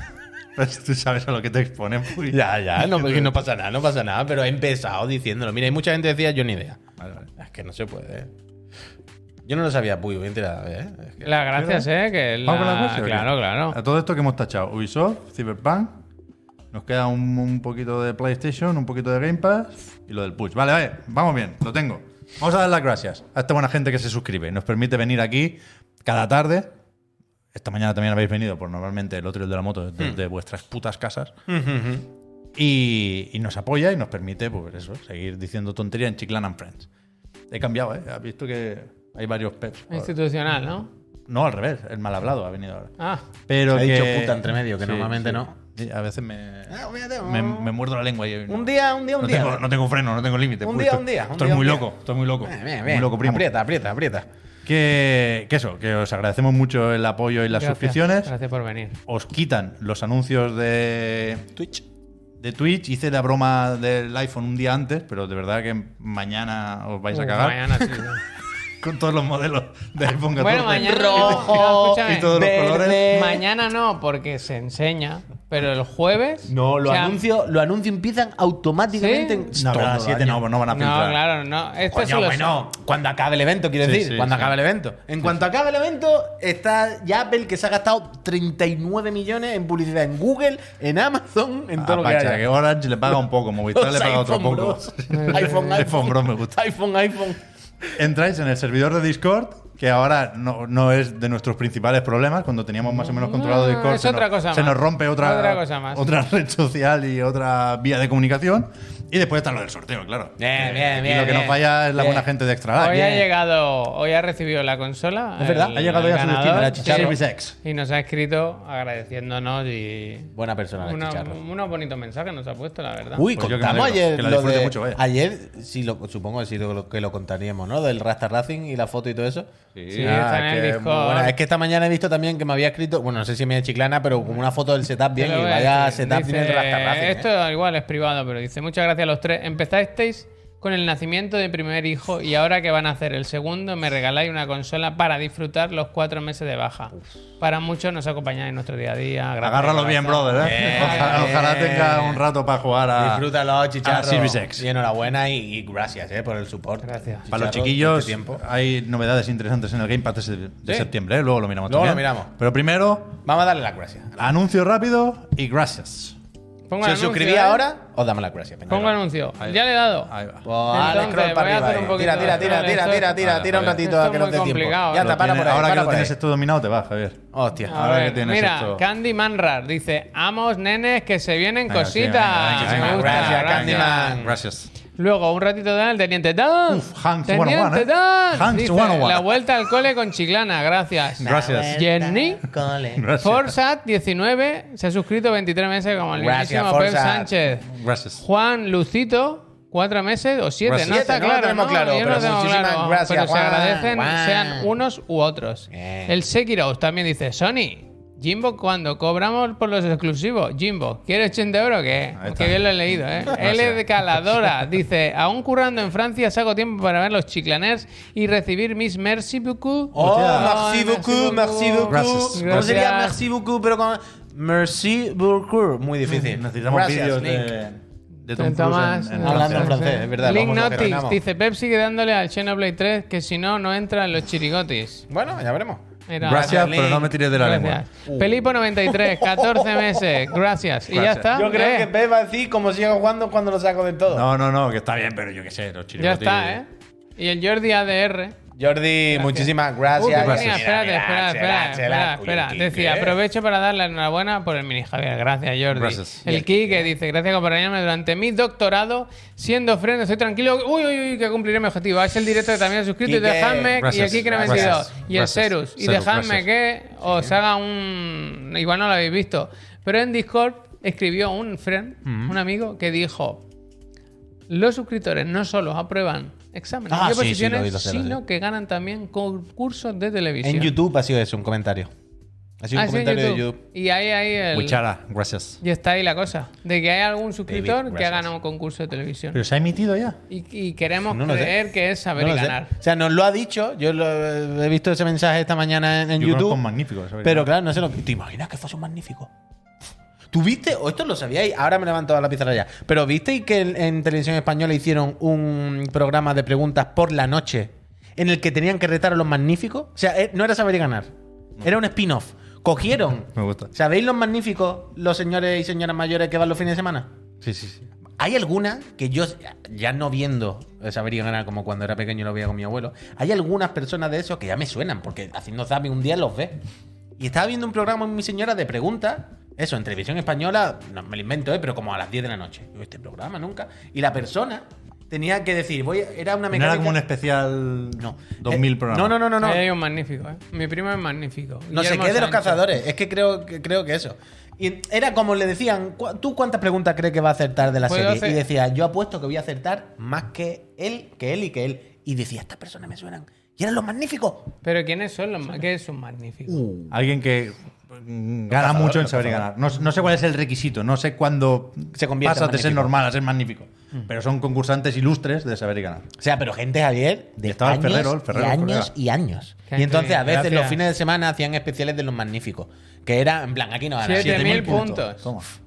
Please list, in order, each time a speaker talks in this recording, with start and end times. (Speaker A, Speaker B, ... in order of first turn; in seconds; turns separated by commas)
Speaker A: 0.6-3.4, Speaker B: 2.3-6.8, Speaker A: 7.0-7.3, Speaker B: 7.3-8.3, Speaker B: 9.4-11.3, Speaker C: 11.2-13.8, Speaker A: 11.5-11.9, Speaker A: 12.4-16.0, Speaker A: 16.7-26.7, Speaker A: 27.5-31.3, Speaker B: 31.5-32.0, Speaker A: 32.5-36.9, Speaker A: 37.5-40.1, Speaker C: 39.9-40.9, Speaker A: 41.3-42.9, Speaker C: 43.0-43.2, Speaker A: 43.5-48.7, Speaker B: 43.7-45.5, Speaker B: 46.7-47.7, Speaker B: 48.5-49.6, Speaker A: 49.2-53.5, Speaker B: 50.6-51.9, Speaker B: 52.4-54.2, Speaker A: 54.6-58.3, Speaker C: 57.5-59.0, Speaker A: 59.1-61.6, Speaker B: 61.6-61.8, Speaker A: 62.4-67.9, Speaker C: 67.1-68.2, Speaker A: 68.8-73.1, Speaker C: 70.3-72.3, Speaker B: 70.7-73.4, Speaker C: 73.1-77.2, Speaker B: 76.5-80.4, Speaker C: 79.0-79.5, Speaker A: 79.5-81.2, Speaker C: 80.7-82.6, Speaker B: 81.8-92.4, Speaker A: 83.8-84.5, Speaker A: 91.8-96.6, Speaker B: 93.7-97.4, Speaker C: 95.1-95.8, Speaker A: 98.0-113.2, Speaker C: 102.9-106.0, Speaker B: 110.4-112.3, Speaker C: 112.8-123.2, Speaker B: 115.4-115.8, Speaker A: 115.7-117.5, Speaker B: 116.4-117.2, Speaker B: 120.3-121.4, Speaker B: 123.2-137.3, Speaker A: 123.3-125.0, Speaker A: 129.7-130.8, Speaker C: 129.9-131.3, Speaker C: 135.2-151.3, Speaker A: 149.4-153.3, Speaker B: 150.4-152.2, Speaker B: 152.9-158.4, Speaker A: 153.8-154.7, Speaker C: 156.8-157.2, Speaker A: 157.3-163.2, Speaker B: 160.6-160.9, Speaker B: 161.7-162.3, Speaker B: 163.2-164.3, Speaker A: 164.2-166.2, Speaker C: 166.7-167.6, Speaker B: 166.8-169.0, Speaker C: 168.7-170.1, Speaker A: 169.4-170.5, Speaker B: 170.4-176.1, Speaker C: 170.7-175.2, Speaker A: 173.2-173.8, Speaker A: 174.9-178.8, Speaker B: 177.3-177.8, Speaker C: 177.6-184.2, Speaker A: 181.7-184.7, Speaker B: 182.5-184.4, Speaker C: 184.9-192.4, Speaker A: 186.7-189.3, Speaker B: 191.2-193.0, Speaker A: 191.2-191.8, Speaker A: 192.9-193.5, Speaker C: 193.2-223.2, Speaker B: 196.1-197.3, Speaker A: 197.6-198.2, Speaker A: 200.7-200.9, Speaker B: 200.7-204.7, Speaker B: 205.7-206.1, Speaker A: 212.2-214.3, Speaker B: 219.9-227.6, Speaker A: 219.9-220.6, Speaker A: 221.9-222.8, Speaker A: 226.1-229.8, Speaker C: 228.3-235.1, Speaker B: 229.2-231.2, Speaker B: 235.1-237.2, Speaker C: 236.1-236.8, Speaker A: 236.2-237.8, Speaker C: 237.3-241.9, Speaker B: 238.1-240.1, Speaker A: 240.9-241.3, Speaker B: 241.3-244.3, Speaker A: 244.1-246.6, Speaker C: 246.0-248.4, Speaker B: 248.6-253.2, Speaker C: 249.1-273.4, Speaker A: 250.0-250.6, Speaker A: 255.7-256.2, Speaker B: 256.2-256.9, Speaker B: 263.0-264.9, Speaker A: 263.8-266.5, Speaker A: 272.0-272.4, Speaker C: 274.5-280.7, Speaker B: 276.9-278.2, Speaker B: 280.4-281.9, Speaker B: 282.6-283.6, Speaker C: 282.7-284.8, Speaker A: 284.5-285.6, Speaker C: 285.6-289.4, Speaker B: 287.5-288.3, Speaker A: 289.3-290.2, Speaker C: 290.3-292.7, Speaker B: 291.1-291.6, Speaker B: 292.1-296.6, Speaker A: 296.2-297.5, Speaker B: 297.2-299.3, Speaker B: 300.3-311.1, Speaker B: 311.6-317.1, Speaker A: 313.3-313.7, Speaker A: 317.4-317.9, Speaker B: 318.2-326.6, Speaker B: 327.2-337.0, Speaker A: 336.5-339.2, Speaker B: 338.0-339.7, Speaker C: 339.4-342.6, Speaker B: 341.7-354.5, Speaker C: 347.8-348.4, Speaker C: 354.6-356.6, Speaker B: 356.5-356.9, Speaker A: 356.9-366.1, Speaker B: 358.5-359.5, Speaker B: 361.9-362.9, Speaker B: 366.2-374.8, Speaker A: 367.4-368.9, Speaker C: 369.7-370.8, Speaker C: 374.0-375.3, Speaker A: 374.1-375.5